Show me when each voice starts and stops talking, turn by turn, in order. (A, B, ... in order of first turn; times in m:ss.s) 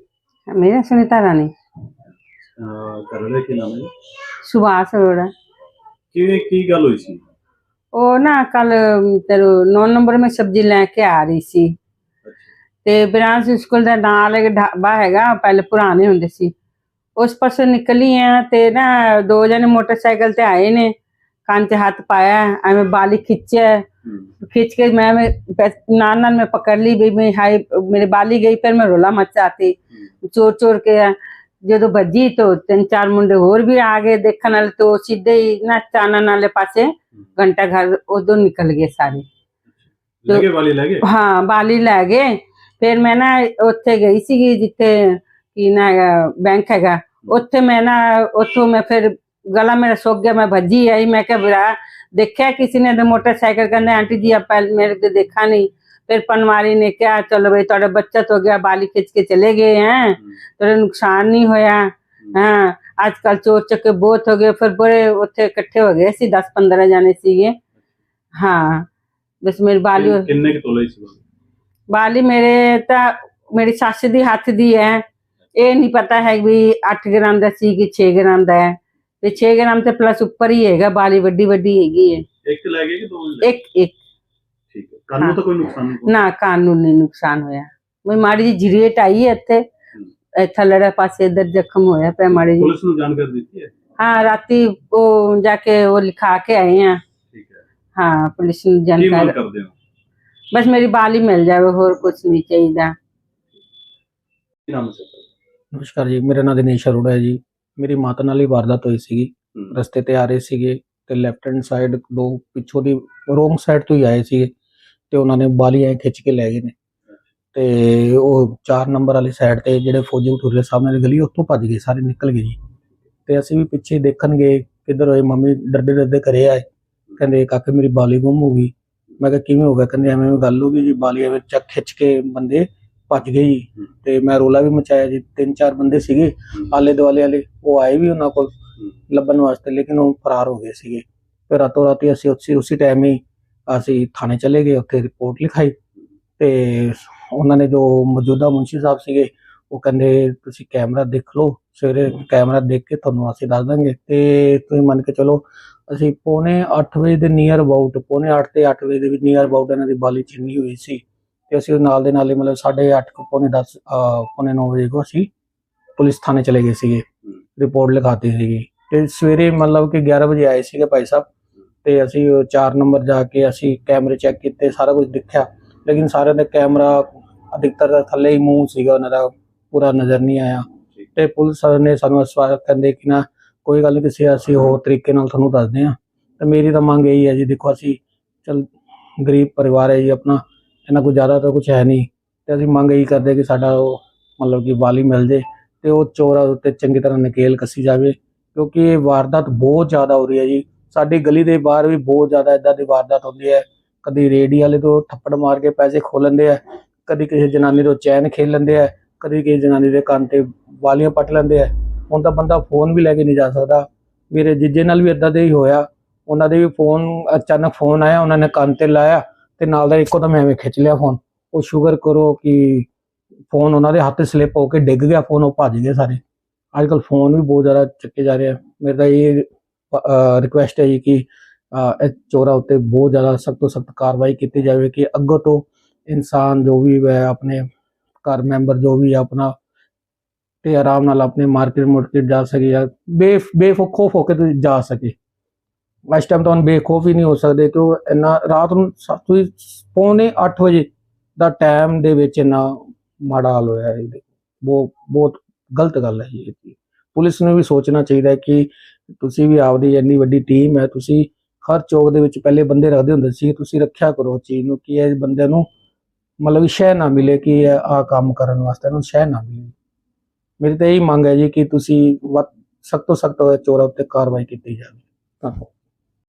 0:00.5-0:01.5 A
0:02.6-0:03.9 B
0:04.4-0:05.3 A
0:06.1-0:07.2 B
0:07.9-0:11.7 A
0:12.8-0:16.5 A
0:17.2-0:20.9 A
0:21.4-0:23.8 A
0:24.4-0:39.2 A
0:39.8-0:41.0 B
0:41.0-1:07.6 A
1:08.4-1:08.9 A
1:09.4-1:10.2 A
1:09.9-1:11.2 B
1:11.9-1:15.0 A
1:15.6-1:22.2 A
1:22.4-1:23.5 B
1:23.4-1:24.0 A
1:24.7-1:26.2 B
1:26.1-1:29.6 A
1:30.4-1:32.7 A
1:32.4-1:33.7 B
1:34.0-1:37.0 A
1:37.3-1:37.6 B
1:38.0-1:39.3 A
1:39.0-1:39.7 B
1:40.5-1:42.9 A
1:44.7-1:45.3 B
1:45.7-1:54.5 C
1:55.1-1:56.7 C
1:57.5-2:02.6 C
2:03.3-2:06.6 C
2:07.2-2:18.5 C
2:19.1-2:25.8 C
2:26.4-2:45.3 C
2:46.0-2:47.0 C
2:47.6-2:51.3 C
2:51.8-3:42.9 C
3:43.5-3:46.2 C
3:46.7-3:57.6 C
3:58.2-3:59.5 C
4:00.6-4:05.2 C
4:06.1-4:25.7 C
4:26.4-4:29.7 C
4:30.6-4:35.7 C